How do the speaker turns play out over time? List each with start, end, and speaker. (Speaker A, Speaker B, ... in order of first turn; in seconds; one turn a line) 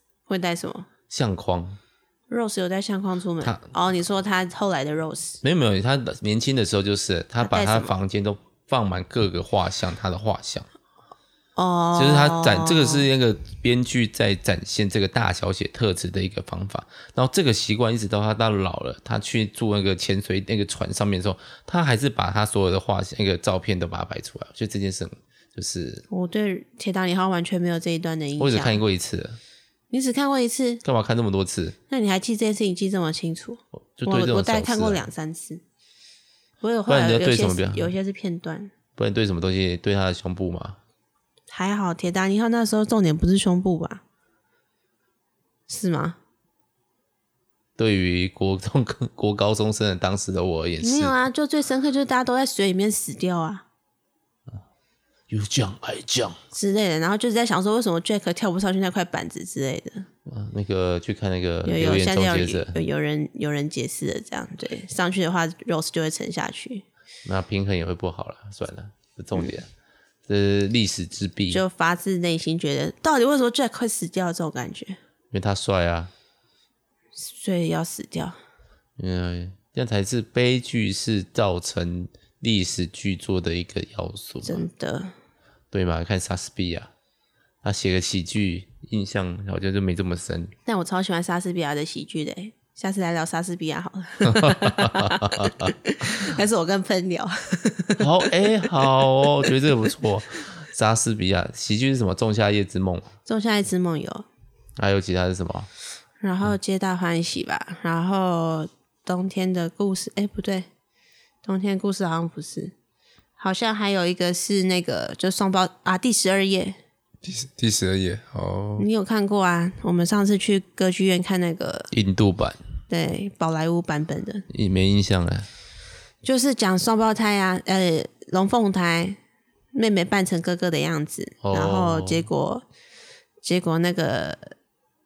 Speaker A: 0.3-0.9
Speaker B: 1.1-1.8
Speaker A: 2.3-5.4
Speaker B: 3.4-3.7
Speaker B: 5.4-10.7
Speaker A: 7.4-7.9
Speaker A: 11.6-13.0
Speaker B: 11.9-26.0
Speaker A: 26.1-28.8
Speaker B: 28.4-29.4
Speaker A: 29.9-30.8
Speaker B: 30.8-31.8
Speaker A: 31.9-35.6
Speaker B: 34.0-35.0
Speaker A: 36.6-38.7
Speaker B: 36.9-37.9
Speaker B: 39.0-40.8
Speaker A: 41.5-44.0
Speaker A: 45.7-46.2
Speaker B: 47.8-51.2
Speaker A: 50.8-53.6
Speaker B: 55.3-56.4
Speaker A: 56.5-60.0
Speaker B: 60.2-62.8
Speaker A: 61.6-66.8
Speaker B: 67.2-69.7
Speaker B: 70.3-71.6
Speaker A: 71.5-75.0
Speaker B: 75.3-76.1
Speaker A: 77.1-78.3
Speaker B: 79.0-84.6
Speaker A: 84.4-85.1
Speaker B: 85.7-86.9
Speaker B: 87.6-90.5
Speaker A: 90.7-99.5
Speaker B: 94.2-96.2
Speaker B: 98.0-103.1
Speaker A: 103.2-104.3
Speaker B: 104.8-105.7
Speaker A: 106.2-110.7
Speaker A: 111.4-112.7
Speaker A: 113.4-116.8
Speaker B: 117.2-118.8
Speaker A: 118.8-121.9
Speaker B: 121.9-122.6
Speaker A: 122.9-124.4
Speaker B: 124.5-125.5
Speaker A: 126.2-129.2
Speaker A: 129.7-132.6
Speaker B: 131.4-132.2
Speaker A: 133.4-134.5